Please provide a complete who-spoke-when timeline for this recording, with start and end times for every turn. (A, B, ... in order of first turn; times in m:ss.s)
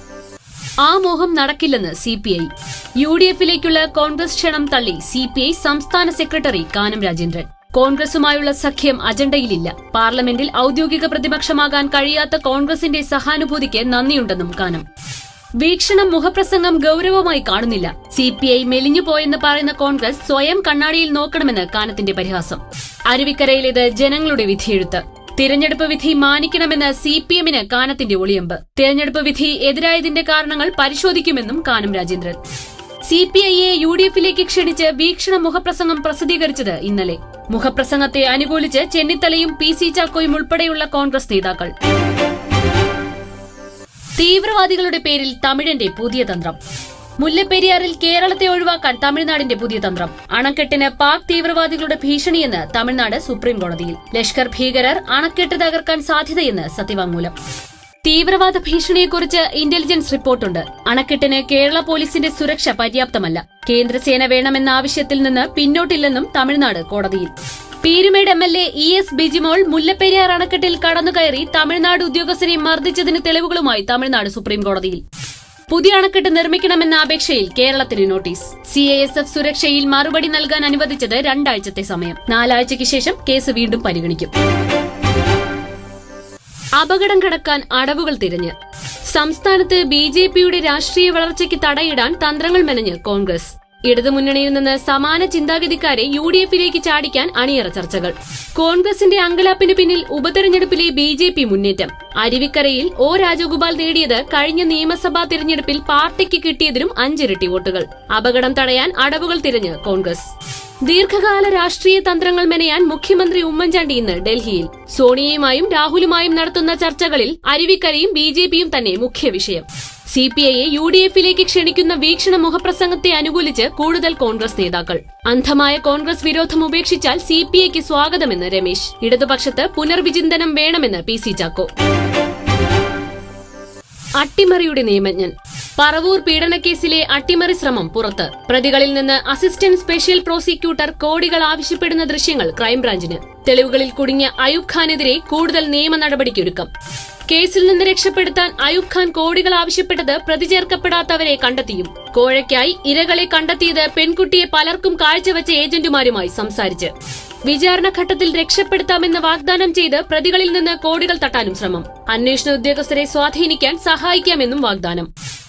0:00.8-0:14.8 A
0:15.6-0:32.4 A
0:33.0-0:41.7 A
0:44.2-0:46.6 A
0:47.2-0:57.3 A
0:58.0-1:15.0 A
1:15.7-1:24.3 A
1:26.8-1:28.5 A
1:29.0-2:11.7 A
2:14.2-2:26.7 A
2:27.3-2:36.9 A
2:37.4-2:45.1 A